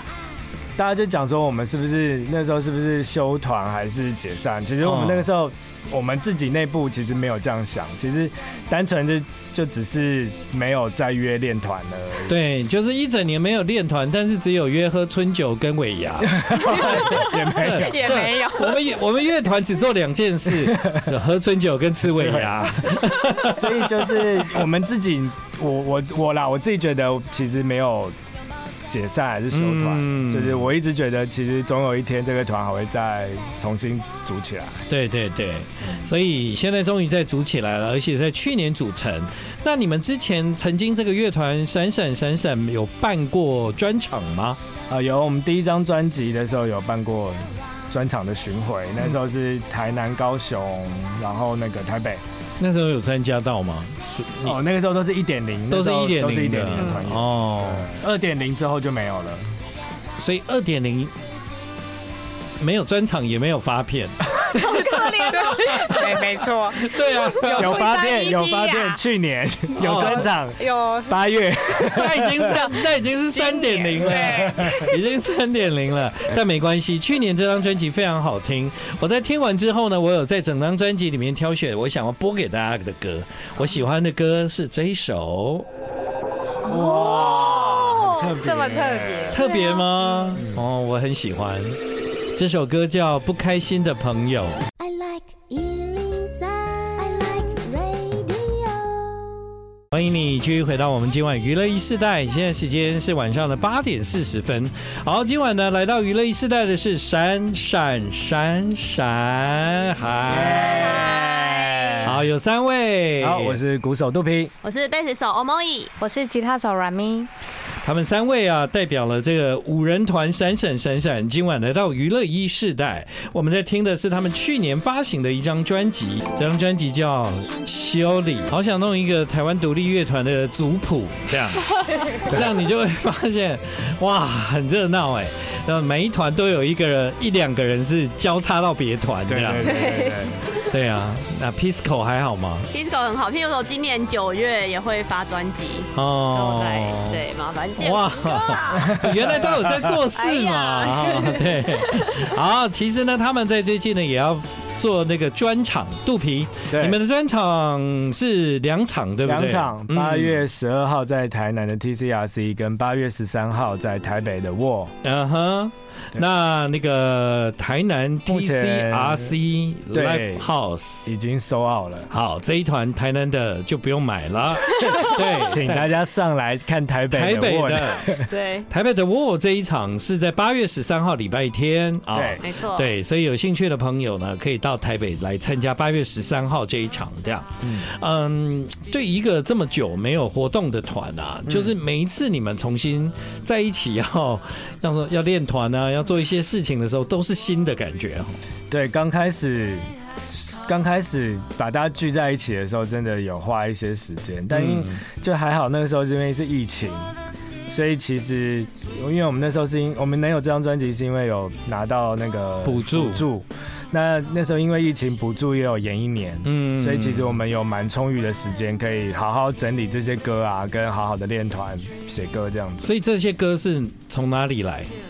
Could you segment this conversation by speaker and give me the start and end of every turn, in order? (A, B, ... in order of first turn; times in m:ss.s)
0:00.8-0:12.4 A
0:04.8-0:05.3 B
0:12.3-0:24.5 B
0:16.2-0:18.2 A
0:17.7-0:18.9 C
0:20.6-0:21.1 A
0:22.0-0:28.1 A
0:28.8-0:34.9 A
0:29.5-0:30.7 B
0:34.9-0:44.6 B
0:44.9-0:52.2 A
0:52.6-0:54.6 B
0:54.4-0:59.4 A
0:55.7-0:57.9 B
0:56.7-0:57.0 C
1:00.2-1:01.1 B
1:02.6-1:07.8 B
1:04.5-1:09.0 C
1:04.9-1:05.4 D
1:07.4-1:12.5 A
1:09.8-1:10.3 B
1:09.8-1:11.2 C
1:11.9-1:25.7 B
1:12.2-1:15.0 C
1:14.0-1:14.8 A
1:26.6-1:29.4 A
1:26.7-1:29.4 C
1:26.7-1:28.4 D
1:29.3-1:31.8 B
1:32.3-1:34.6 B
1:34.8-1:39.5 E
1:39.9-1:50.9 B
1:50.3-1:52.2 A
1:50.4-1:52.0 D
1:50.7-1:51.1 C
1:52.0-1:53.6 B
1:53.2-1:54.5 A
1:54.6-1:55.9 D
1:56.0-1:57.3 C
1:57.8-2:19.8 B
2:12.3-2:12.5 A
2:19.3-2:20.4 A
2:19.6-2:20.3 D
2:20.6-2:22.7 B
2:22.7-2:29.0 D
2:25.9-2:27.2 B
2:27.8-2:40.4 B
2:28.8-2:30.0 A
2:30.1-2:32.0 D
2:36.7-2:37.0 A
2:39.2-2:44.9 A
2:45.0-2:51.1 B
2:48.3-2:49.4 A
2:49.9-2:50.5 A
2:51.0-2:52.1 A
2:52.1-2:55.9 B
2:54.8-2:55.1 D
2:55.2-2:58.3 A
2:57.1-3:18.4 B
2:58.3-2:58.6 D
3:02.1-3:02.4 A
3:02.4-3:02.9 D
3:07.6-3:07.9 A
3:11.4-3:11.7 A
3:18.7-3:27.1 A
3:24.5-3:25.0 B
3:27.7-3:42.9 A
3:32.6-3:33.2 B
3:36.4-3:37.4 B
3:42.8-3:44.9 B